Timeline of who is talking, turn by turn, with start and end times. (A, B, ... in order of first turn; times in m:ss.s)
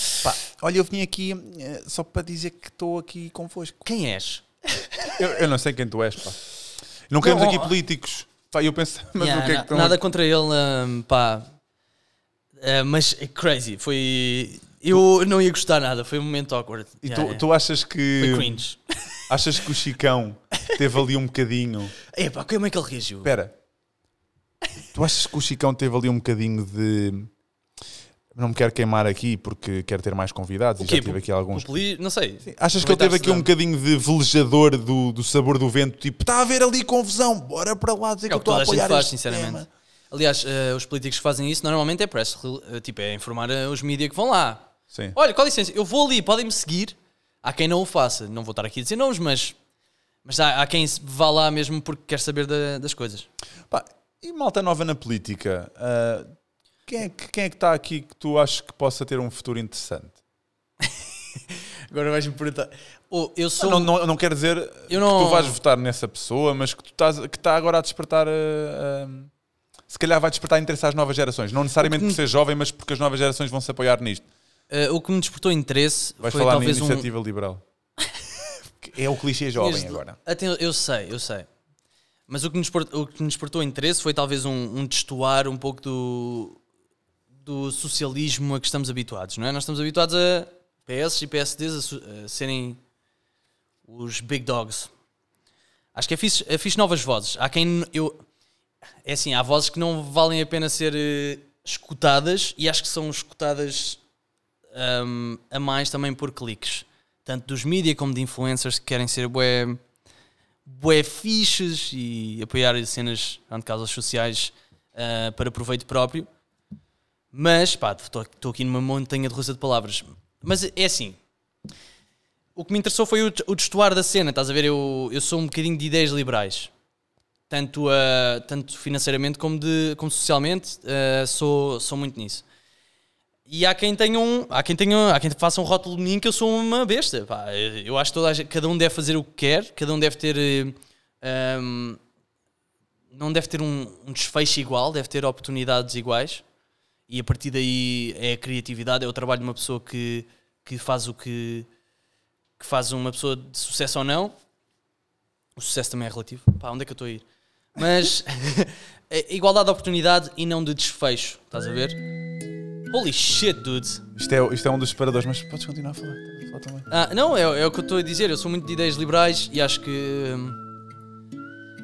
0:00.2-0:03.8 A
0:03.8-0:05.2 B
0:05.1-0:06.5 A
0:07.1-0:10.0 A
0:07.2-0:07.8 B
0:09.2-0:11.5 B
0:12.6-0:17.4 B
0:17.0-0:18.6 A
0:18.2-0:19.2 B
0:19.3-0:22.0 A
0:22.1-0:23.3 B
0:23.2-0:23.6 A
0:24.9-0:27.3 A
0:28.4-0:31.7 A
0:30.8-0:33.5 B
0:32.4-0:39.7 A
0:38.3-0:49.6 B
0:50.2-0:53.3 B
0:53.7-0:56.3 A
0:56.9-1:00.2 A
1:00.8-1:03.9 B
1:03.6-1:09.3 A
1:04.9-1:05.6 B
1:09.9-1:14.2 A
1:11.8-1:12.2 B
1:14.7-1:17.1 B
1:16.2-1:17.6 A
1:18.8-1:20.2 A
1:19.6-1:21.5 B
1:22.3-1:26.6 B
1:27.4-1:32.8 B
1:33.9-1:34.9 B
1:36.0-1:38.2 B
1:39.0-1:44.0 B
1:44.7-1:49.8 B
1:50.7-1:56.3 B
1:57.3-2:01.2 B
2:02.6-2:06.7 B
2:07.5-2:12.4 B
2:13.5-2:22.0 B
2:23.1-2:26.4 B
2:27.1-2:31.7 B
2:32.6-2:34.3 B
2:35.6-2:42.0 B
2:42.9-2:44.0 B
2:44.2-2:46.9 A
2:46.9-2:50.7 B